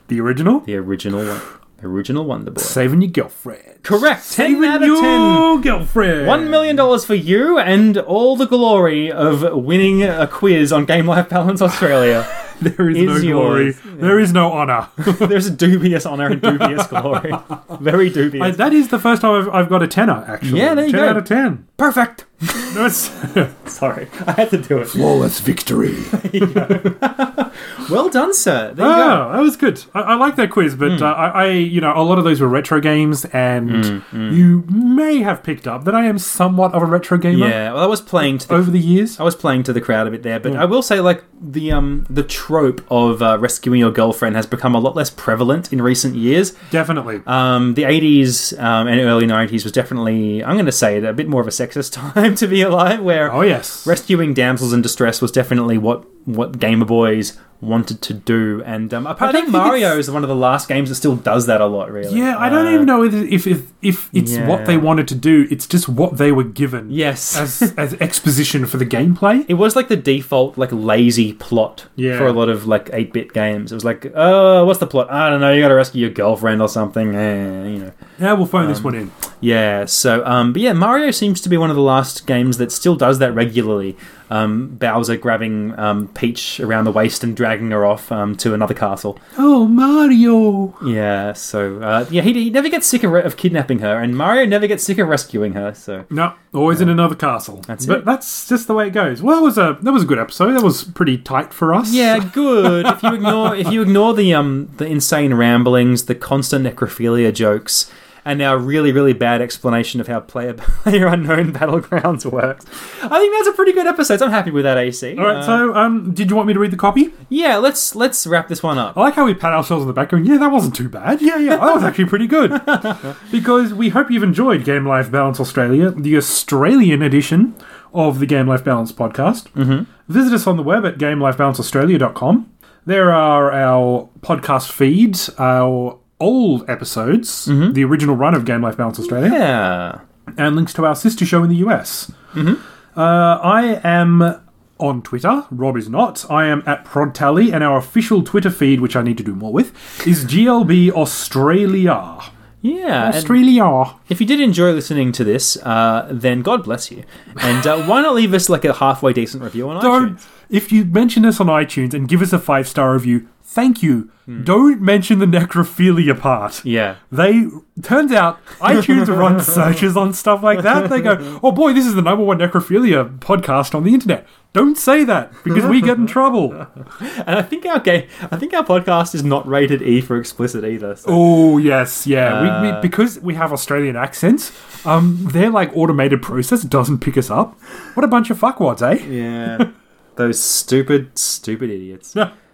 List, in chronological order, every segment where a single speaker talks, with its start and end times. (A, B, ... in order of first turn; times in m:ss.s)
0:00.1-0:00.7 A
0:00.7-0:02.8 B
0:02.6-0:06.7 A
0:03.8-0:05.6 B
0:06.2-0:12.3 B
0:12.5-0:15.4 A
0:12.9-0:14.3 B
0:15.0-0:18.6 B
0:16.4-0:17.2 A
0:18.4-0:21.6 A
0:20.4-0:25.0 B
0:22.7-0:23.5 A
0:24.9-0:26.9 A
0:26.1-0:29.3 B
0:28.8-0:37.6 A
0:30.8-0:31.1 B
0:33.7-0:34.5 B
0:37.3-0:46.6 B
0:38.2-0:39.2 A
0:46.7-0:47.2 A
0:47.2-1:02.9 B
0:53.3-0:53.9 A
0:59.2-1:00.0 A
1:02.1-1:09.5 A
1:04.2-1:04.9 B
1:06.9-1:07.8 B
1:09.5-1:17.9 B
1:12.0-1:12.4 A
1:18.2-1:19.1 A
1:18.6-1:29.2 B
1:29.4-1:30.8 A
1:30.8-1:36.1 B
1:36.1-1:43.7 A
1:37.7-1:38.1 B
1:41.9-1:55.7 B
1:55.2-1:57.1 A
1:57.3-1:59.0 B
1:58.9-2:09.5 A
2:02.6-2:03.0 B
2:09.6-2:09.9 B
2:10.1-2:19.4 A
2:17.5-2:17.8 B
2:19.1-2:20.0 B
2:20.4-2:22.1 A
2:22.3-2:22.6 B
2:23.0-2:32.3 A
2:32.6-2:33.4 B
2:33.0-2:34.0 A
2:34.1-2:40.2 B
2:39.8-2:56.6 A
2:46.6-2:47.0 B
2:57.0-3:01.3 B
3:01.1-3:09.7 A
3:02.2-3:02.9 B
3:09.0-3:12.2 B